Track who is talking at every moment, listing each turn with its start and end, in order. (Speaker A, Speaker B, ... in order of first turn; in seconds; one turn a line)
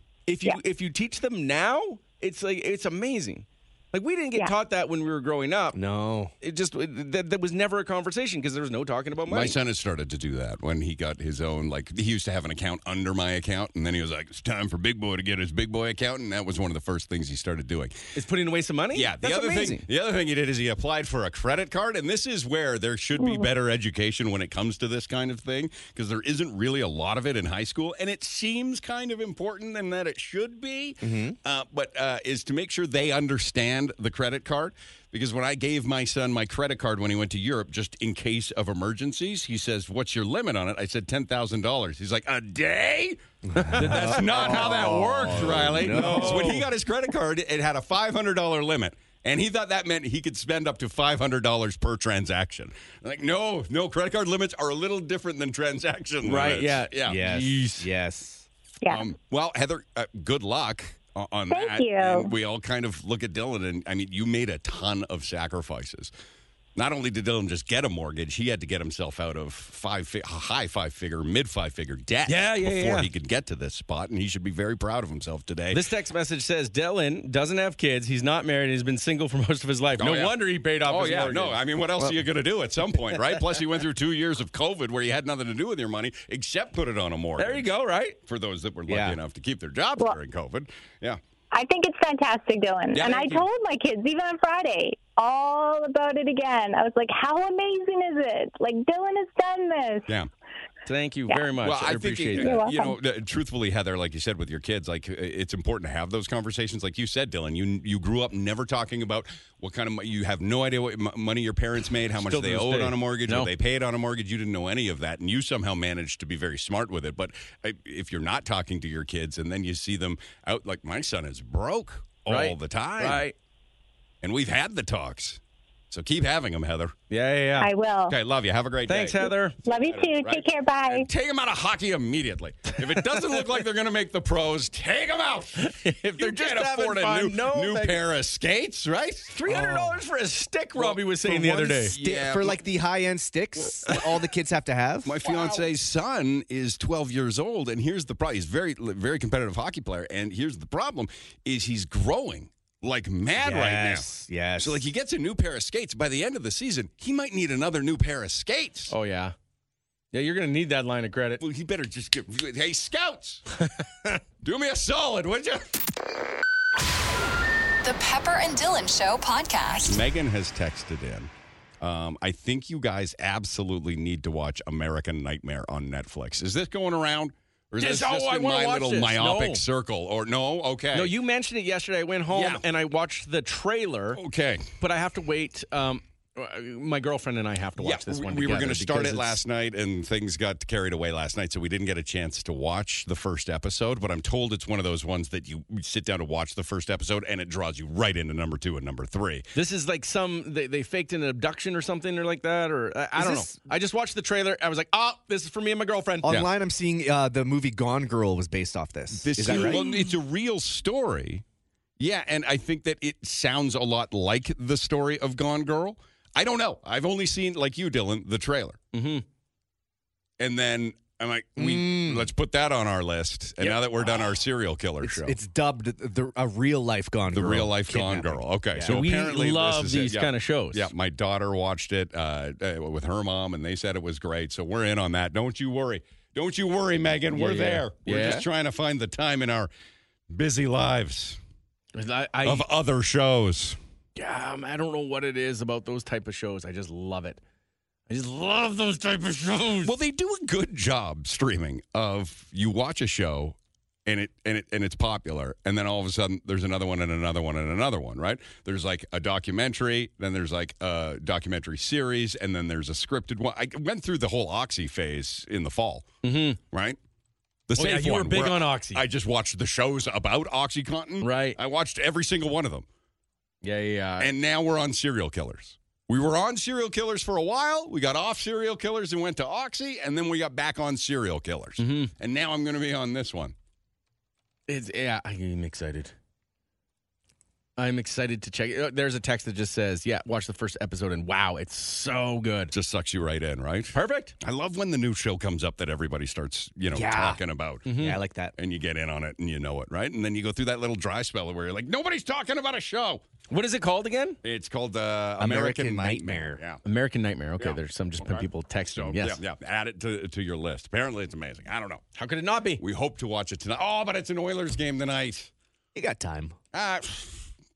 Speaker A: 0.3-5.8
Speaker B: 5.7-6.3
Speaker A: 6.4-9.5
Speaker C: 9.3-18.0
Speaker A: 18.1-19.9
Speaker C: 18.9-57.2
Speaker D: 23.2-23.4
Speaker B: 31.0-31.4
Speaker B: 43.5-46.6
Speaker A: 43.7-46.6
Speaker A: 56.2-57.9
Speaker B: 57.0-58.5
Speaker C: 58.9-66.1
Speaker D: 61.5-62.3
Speaker C: 66.8-75.8
Speaker A: 72.3-73.1
Speaker A: 75.7-81.6
Speaker C: 80.0-87.7
Speaker A: 87.4-88.2
Speaker C: 88.2-91.2
Speaker B: 88.9-89.2
Speaker D: 91.5-100.1
Speaker C: 92.9-93.5
Speaker A: 100.8-102.6
Speaker C: 101.6-123.2
Speaker D: 102.4-103.0
Speaker A: 112.2-113.5
Speaker A: 122.3-123.3
Speaker C: 124.2-125.4
Speaker C: 125.9-126.9
Speaker A: 127.1-127.7
Speaker D: 127.6-128.2
Speaker C: 128.1-139.3
Speaker A: 128.9-129.6
Speaker D: 129.7-131.1
Speaker A: 135.6-138.0
Speaker A: 139.3-141.9
Speaker B: 139.5-140.0
Speaker C: 140.8-142.6
Speaker B: 141.3-145.2
Speaker C: 145.0-154.1
Speaker B: 153.4-154.8
Speaker C: 154.6-158.9
Speaker A: 158.9-159.3
Speaker A: 160.1-161.4
Speaker C: 161.4-163.4
Speaker A: 163.8-164.2
Speaker C: 164.4-165.8
Speaker E: 167.8-170.0
Speaker C: 169.8-181.1
Speaker A: 177.8-179.6
Speaker A: 180.9-184.2
Speaker C: 182.3-182.6
Speaker C: 184.1-184.7
Speaker A: 184.8-189.4
Speaker C: 187.8-199.4
Speaker A: 199.5-206.3
Speaker B: 203.2-203.6
Speaker B: 206.2-209.8
Speaker C: 209.2-211.4
Speaker C: 212.0-218.8
Speaker A: 218.9-219.2
Speaker C: 220.4-225.3
Speaker B: 221.6-222.3
Speaker A: 223.6-224.2
Speaker B: 225.0-228.9
Speaker C: 227.3-239.7
Speaker A: 228.8-230.9
Speaker A: 237.3-238.4
Speaker C: 240.3-241.4
Speaker A: 241.9-242.7
Speaker C: 242.4-243.8
Speaker A: 244.2-247.4
Speaker A: 248.1-249.9
Speaker C: 249.8-266.1
Speaker A: 266.2-266.6
Speaker C: 266.7-267.0
Speaker C: 267.7-272.9
Speaker A: 267.8-269.0
Speaker A: 271.2-271.6
Speaker A: 273.6-274.3
Speaker C: 274.2-283.5
Speaker A: 281.8-282.1
Speaker A: 284.7-286.1
Speaker A: 287.8-292.7
Speaker C: 292.7-297.8
Speaker A: 293.9-294.3
Speaker B: 296.9-297.4
Speaker A: 297.8-298.2
Speaker B: 297.9-298.5
Speaker C: 298.6-303.2
Speaker A: 303.5-304.4
Speaker C: 304.4-306.8
Speaker B: 305.4-306.6
Speaker A: 306.8-309.4
Speaker C: 307.6-312.0
Speaker A: 312.2-312.8
Speaker C: 312.8-315.5
Speaker B: 315.9-316.6
Speaker C: 316.7-317.4